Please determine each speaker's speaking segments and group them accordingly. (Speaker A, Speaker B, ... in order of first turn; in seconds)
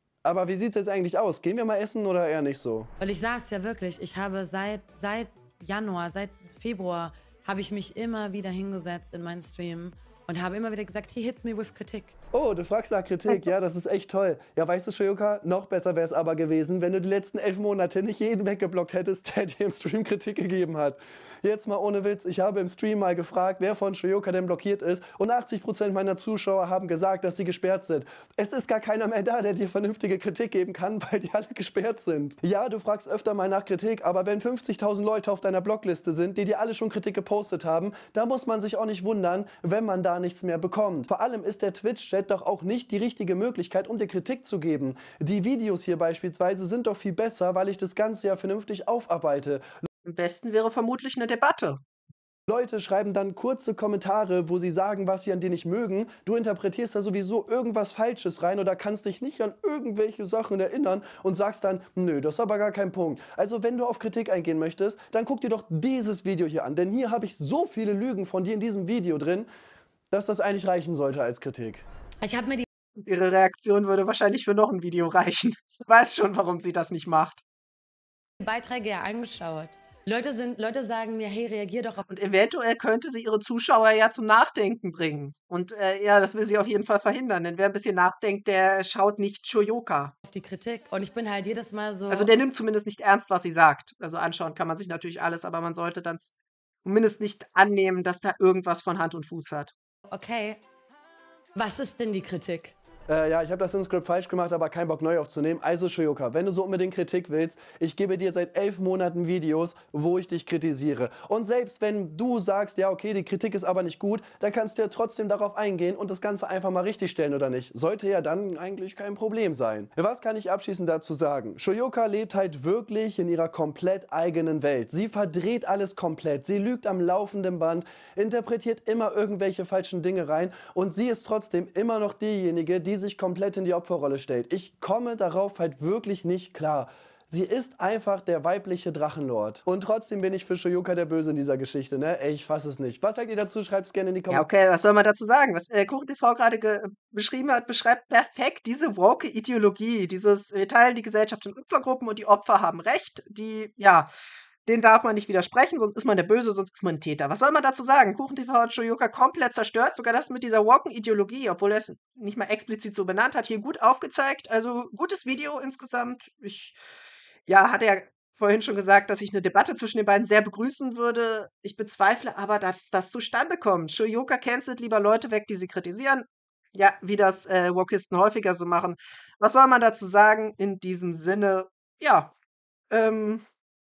Speaker A: 0.2-2.9, 12.3-49.6, 52.5-69.5, 70.1-71.8, 103.1-144.5
Speaker B: 3.0-12.2, 72.2-72.6, 78.4-82.1, 90.2-92.3, 100.1-100.6, 101.5-102.7
Speaker C: 50.0-51.8, 73.0-77.4, 82.1-90.1, 92.1-96.3, 96.8-99.7, 144.3-154.1, 154.7-166.8, 167.5-182.3, 182.9-183.4